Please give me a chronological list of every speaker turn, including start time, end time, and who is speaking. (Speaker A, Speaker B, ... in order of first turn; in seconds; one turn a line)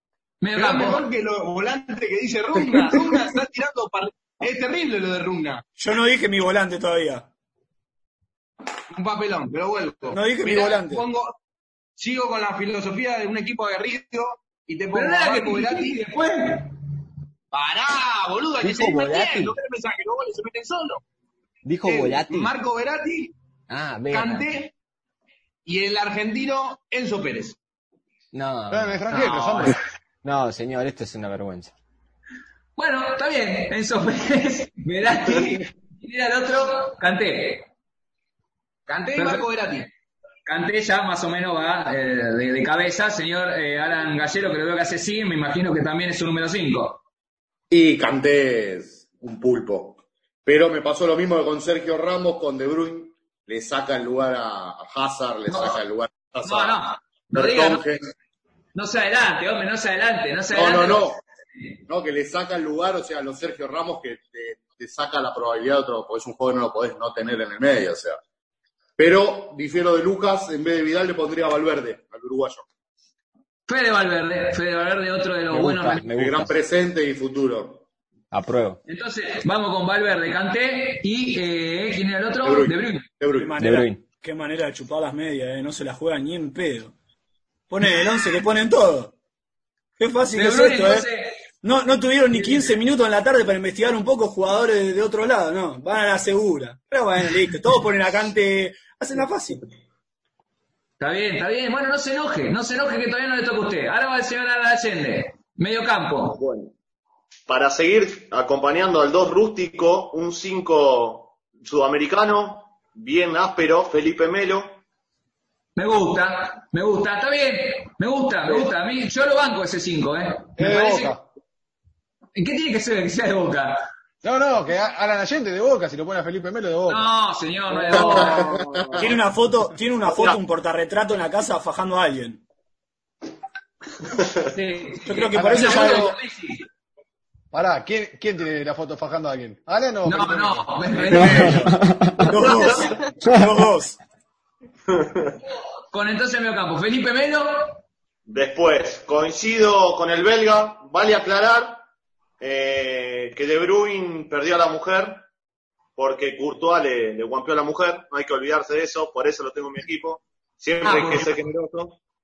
Speaker A: 0.4-1.0
Speaker B: 0.6-5.6
Speaker C: 5.8-7.3
Speaker B: 8.9-11.4
Speaker C: 10.1-11.1
Speaker B: 12.0-16.0
Speaker A: 14.9-16.7
Speaker B: 17.5-21.0
Speaker D: 18.6-19.6
Speaker D: 21.6-22.5
Speaker B: 21.9-23.3
Speaker D: 23.7-24.5
Speaker B: 24.1-24.7
Speaker B: 25.6-27.6
Speaker D: 28.3-29.3
Speaker E: 28.7-29.8
Speaker A: 29.1-29.8
Speaker D: 30.2-31.7
Speaker A: 32.8-37.7
Speaker B: 38.9-39.9
Speaker A: 39.2-39.4
Speaker A: 40.5-47.0
Speaker F: 47.7-58.1
Speaker A: 55.5-55.8
Speaker A: 56.4-57.8
Speaker A: 58.8-61.0
Speaker F: 60.5-61.2
Speaker F: 61.9-68.2
Speaker F: 69.0-72.7
Speaker A: 73.7-76.1
Speaker D: 75.5-76.5
Speaker F: 76.1-77.8
Speaker D: 78.3-78.8
Speaker A: 78.9-83.1
Speaker F: 82.4-83.6
Speaker C: 83.4-86.9
Speaker D: 83.6-84.0
Speaker C: 87.7-89.1
Speaker C: 90.0-91.1
Speaker A: 90.3-91.4
Speaker C: 91.6-99.6
Speaker A: 101.0-106.4
Speaker G: 106.3-106.7
Speaker G: 107.5-114.8
Speaker A: 115.8-121.2
Speaker E: 120.6-121.2
Speaker A: 122.4-123.9
Speaker E: 124.2-127.1
Speaker A: 126.9-128.6
Speaker G: 127.9-129.1
Speaker F: 128.0-128.6
Speaker C: 129.0-132.4
Speaker G: 130.1-130.4
Speaker A: 134.5-136.7
Speaker C: 135.0-136.2
Speaker E: 135.4-136.0
Speaker E: 137.5-141.7
Speaker A: 140.1-141.8
Speaker D: 141.3-142.3
Speaker C: 142.2-144.0
Speaker G: 142.4-142.9
Speaker G: 144.9-145.3
Speaker A: 145.9-147.8
Speaker G: 148.3-151.8
Speaker G: 152.4-155.3
Speaker G: 156.0-162.0
Speaker A: 160.8-161.3